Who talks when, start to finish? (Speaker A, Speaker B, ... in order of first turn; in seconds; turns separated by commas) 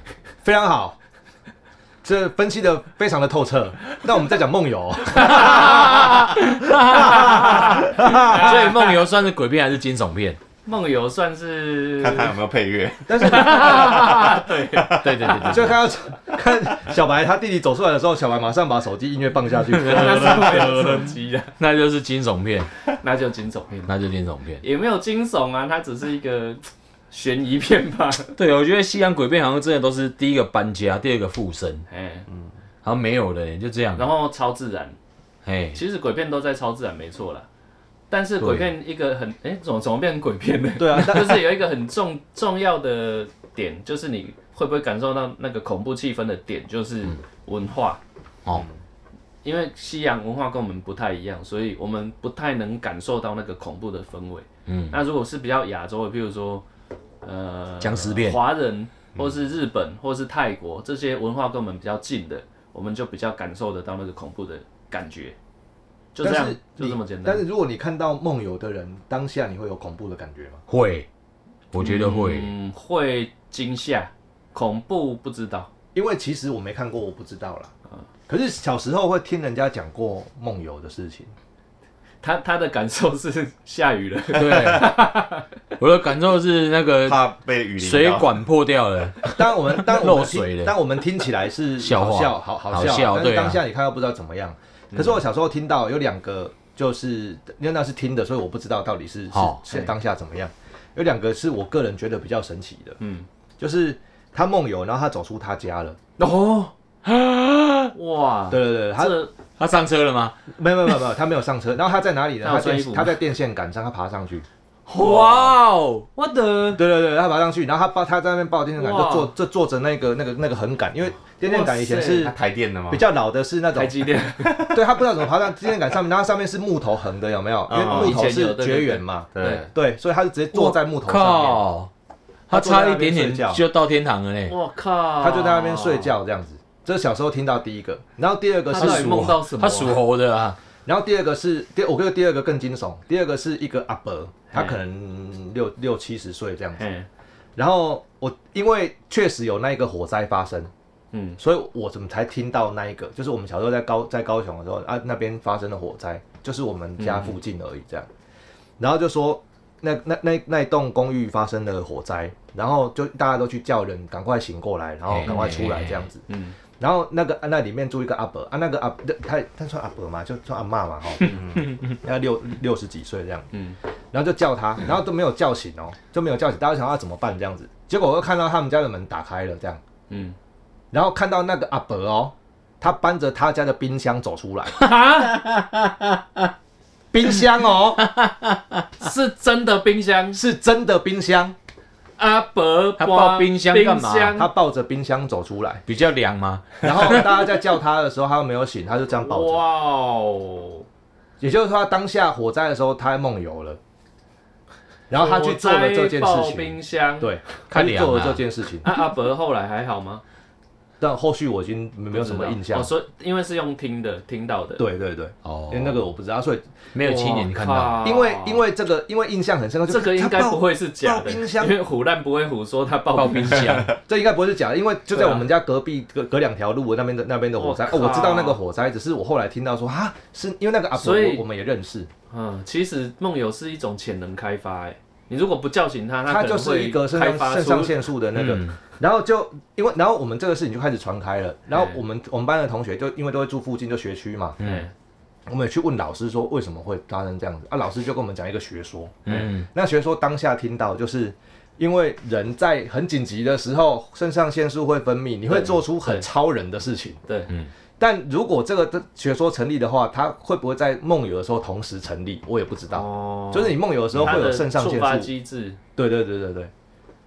Speaker A: 0.4-1.0, Speaker A: 2.0-8.7, Speaker B: 5.3-10.4, Speaker C: 7.3-9.0, Speaker C: 10.7-12.4, Speaker D: 12.0-15.4, Speaker A: 13.1-14.2, Speaker C: 13.3-15.0, Speaker B: 14.9-15.8, Speaker A: 15.4-21.1, Speaker C: 19.7-21.6, Speaker B: 19.8-20.8, Speaker B: 21.6-22.7, Speaker C: 22.9-23.9, Speaker B: 23.9-24.6, Speaker C: 24.6-28.4, Speaker B: 28.4-31.9, Speaker C: 31.9-32.3, Speaker B: 32.8-34.1, Speaker C: 34.0-35.0, Speaker B: 35.5-35.8, Speaker C: 35.8-37.5, Speaker C: 38.1-48.0, Speaker B: 38.4-38.7, Speaker A: 40.8-41.6, Speaker C: 49.4-56.6, Speaker B: 54.7-55.0, Speaker C: 57.2-65.3, Speaker B: 57.8-58.4, Speaker C: 66.2-67.4, Speaker A: 66.2-70.6, Speaker B: 70.7-71.1, Speaker B: 71.7-72.5, Speaker C: 71.8-75.7, Speaker A: 75.9-77.7, Speaker A: 78.3-81.3, Speaker C: 82.2-85.5, Speaker B: 84.3-85.0, Speaker B: 85.8-87.3, Speaker D: 87.0-88.4, Speaker B: 87.8-90.7, Speaker A: 89.3-103.0, Speaker B: 91.8-93.6, Speaker B: 99.3-99.6, Speaker C: 103.0-103.3, Speaker A: 103.6-106.0, Speaker C: 106.2-106.7, Speaker B: 107.1-107.9, Speaker C: 107.9-109.3, Speaker A: 108.5-109.2, Speaker B: 109.6-110.4, Speaker A: 110.5-114.5, Speaker C: 112.4-113.2, Speaker B: 114.9-116.1, Speaker C: 114.9-115.6, Speaker C: 116.1-116.8, Speaker A: 116.8-122.3, Speaker C: 118.8-119.3, Speaker C: 121.4-122.3, Speaker D: 122.2-123.0, Speaker A: 122.9-123.9, Speaker C: 123.7-124.7, Speaker D: 124.4-124.8, Speaker A: 124.7-131.6, Speaker D: 127.7-128.3, Speaker C: 127.8-129.7, Speaker D: 129.3-129.7, Speaker B: 130.5-131.9, Speaker B: 132.5-134.6, Speaker A: 132.5-133.6, Speaker C: 134.5-136.1, Speaker A: 135.2-139.2, Speaker C: 138.7-140.0, Speaker B: 138.7-140.6, Speaker A: 140.8-146.8, Speaker C: 144.5-144.8, Speaker C: 146.8-147.1, Speaker A: 147.6-150.7, Speaker C: 151.1-151.4, Speaker A: 151.4-158.1, Speaker C: 157.0-157.4, Speaker A: 158.8-166.3, Speaker B: 165.1-166.1, Speaker C: 165.3-165.6, Speaker C: 166.3-166.6, Speaker A: 166.8-173.5, Speaker D: 171.3-171.6, Speaker A: 174.1-179.8, Speaker C: 180.1-180.4, Speaker A: 180.9-184.8, Speaker C: 184.8-185.4, Speaker B: 185.0-186.2, Speaker A: 187.1-188.0, Speaker B: 188.0-188.9, Speaker C: 189.0-190.4, Speaker A: 190.3-191.6, Speaker C: 192.2-194.5, Speaker B: 193.0-194.4, Speaker A: 194.4-195.8, Speaker B: 195.9-197.2, Speaker A: 196.8-199.6, Speaker C: 199.2-200.8, Speaker A: 201.4-203.8, Speaker A: 205.1-208.9, Speaker C: 205.1-207.4, Speaker B: 207.7-208.4, Speaker C: 208.8-210.2, Speaker A: 211.0-212.9, Speaker C: 212.1-214.8, Speaker A: 214.8-216.6, Speaker B: 215.4-216.0, Speaker B: 216.9-218.1, Speaker C: 217.0-218.6, Speaker A: 218.0-221.8, Speaker C: 219.9-223.9, Speaker B: 223.1-223.9, Speaker A: 224.1-232.1, Speaker C: 225.1-225.5, Speaker C: 227.6-228.6, Speaker C: 230.9-231.4, Speaker C: 232.3-238.0, Speaker A: 236.3-244.6, Speaker B: 238.3-238.8, Speaker C: 241.7-242.0, Speaker B: 244.6-244.9, Speaker C: 244.6-244.9, Speaker A: 245.5-257.2, Speaker C: 249.3-249.6, Speaker B: 249.3-249.7, Speaker C: 255.5-256.3, Speaker C: 257.3-257.5, Speaker A: 258.0-265.3, Speaker C: 262.9-265.8, Speaker A: 266.0-266.7